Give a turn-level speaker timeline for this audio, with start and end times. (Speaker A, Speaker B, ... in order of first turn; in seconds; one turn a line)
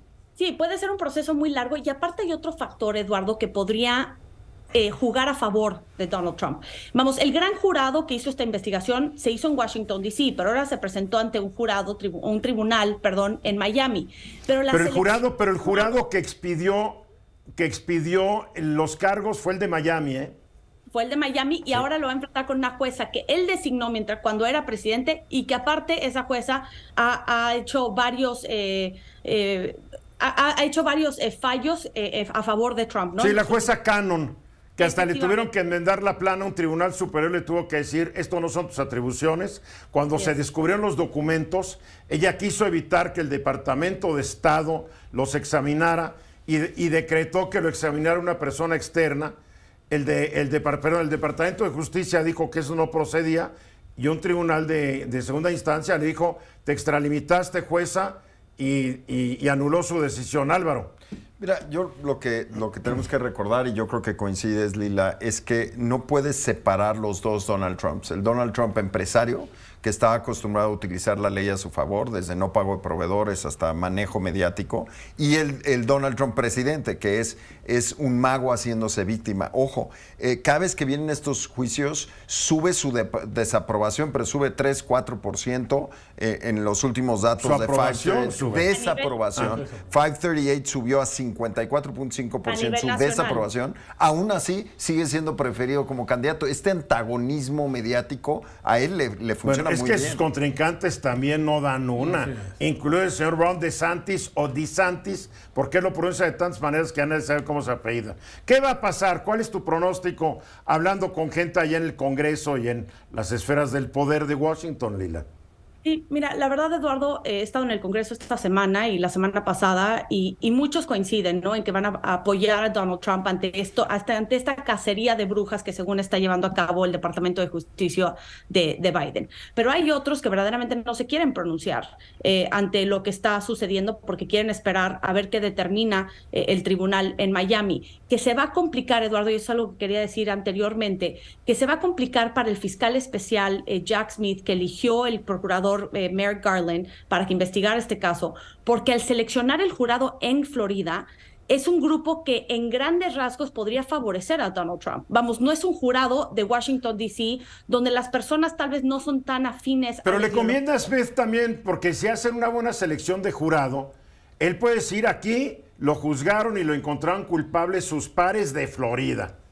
Speaker A: 0.4-4.2
Speaker A: 4.7-15.9
Speaker B: 14.7-17.0
Speaker B: 17.6-20.4
Speaker A: 20.9-33.7
Speaker B: 33.2-49.3
Speaker A: 34.8-35.5
Speaker B: 49.9-60.9
Speaker C: 61.4-100.2
Speaker B: 87.4-88.7
Speaker A: 88.7-89.2
Speaker B: 89.3-89.7
Speaker A: 92.5-93.4
Speaker B: 99.4-115.2
Speaker A: 115.8-160.6
Speaker B: 160.0-169.3